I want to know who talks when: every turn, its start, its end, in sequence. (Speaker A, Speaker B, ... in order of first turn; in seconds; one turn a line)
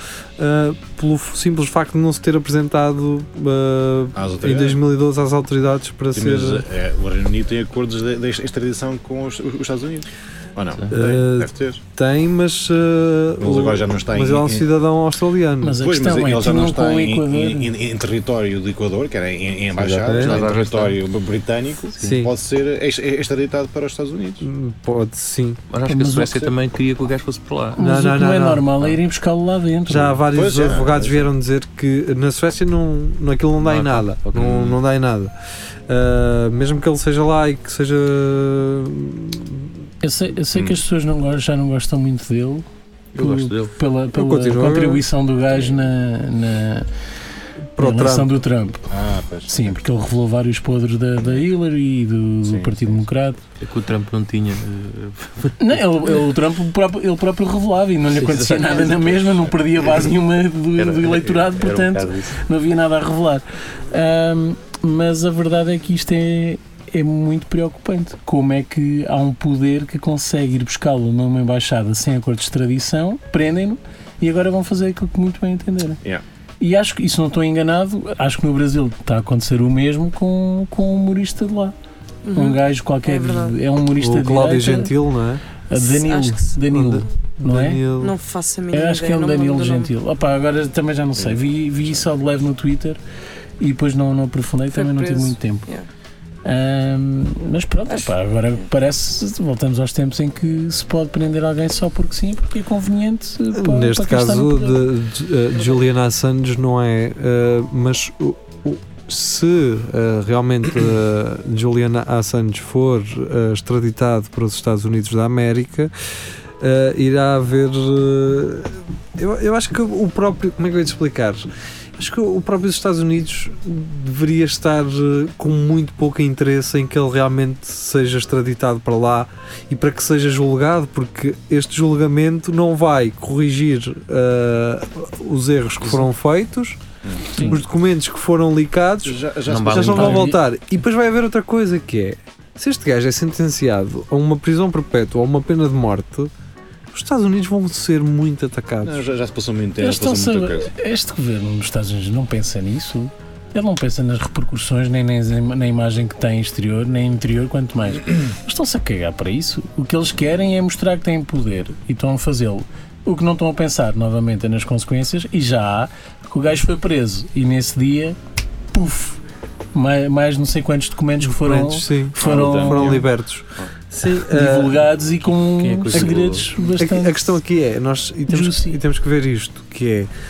Speaker A: 0.4-6.6
Speaker B: 4.1-4.8
Speaker B: 6.1-11.8
Speaker A: 10.9-15.8
Speaker B: 13.4-14.7
Speaker C: 15.6-17.7
Speaker B: 15.8-24.5
Speaker D: 19.8-21.0
Speaker A: 20.0-20.4
Speaker A: 22.0-22.3
Speaker A: 24.4-25.6
Speaker D: 25.7-27.8
Speaker C: 25.9-26.5
Speaker C: 27.7-30.2
Speaker A: 27.8-28.7
Speaker A: 29.9-35.3
Speaker B: 30.3-31.3
Speaker D: 33.6-34.8
Speaker A: 35.9-39.7
Speaker C: 40.0-42.6
Speaker D: 43.1-43.7
Speaker C: 43.2-46.9
Speaker A: 44.1-45.0
Speaker A: 47.8-48.3
Speaker C: 47.8-48.8
Speaker B: 48.9-49.8
Speaker C: 49.5-53.4
Speaker B: 52.4-53.0
Speaker D: 53.6-56.2
Speaker C: 55.6-76.0
Speaker D: 58.1-59.5
Speaker D: 60.8-62.4
Speaker C: 76.6-81.7
Speaker E: 82.2-83.6
Speaker C: 82.3-84.9
Speaker A: 84.0-85.4
Speaker C: 85.7-87.8
Speaker E: 85.8-86.6
Speaker A: 86.7-88.1
Speaker E: 88.0-89.9
Speaker C: 88.7-93.0
Speaker B: 91.2-91.5
Speaker C: 93.6-95.7
Speaker E: 94.7-95.9
Speaker C: 96.4-104.8
Speaker E: 97.9-98.6
Speaker A: 103.5-115.9
Speaker A: 116.6-121.4
Speaker A: 122.0-136.8
Speaker B: 137.0-137.4
Speaker A: 137.3-146.3
Speaker B: 139.0-140.3
Speaker D: 139.4-140.3
Speaker C: 139.9-140.4
Speaker A: 146.9-149.0
Speaker B: 148.8-150.7
Speaker C: 149.8-168.2
Speaker C: 168.7-169.2
Speaker C: 169.7-173.1
Speaker A: 171.2-174.7
Speaker B: 172.2-173.0
Speaker C: 174.3-177.3
Speaker D: 175.6-176.5
Speaker A: 175.9-176.2
Speaker A: 176.8-180.1
Speaker C: 178.3-178.8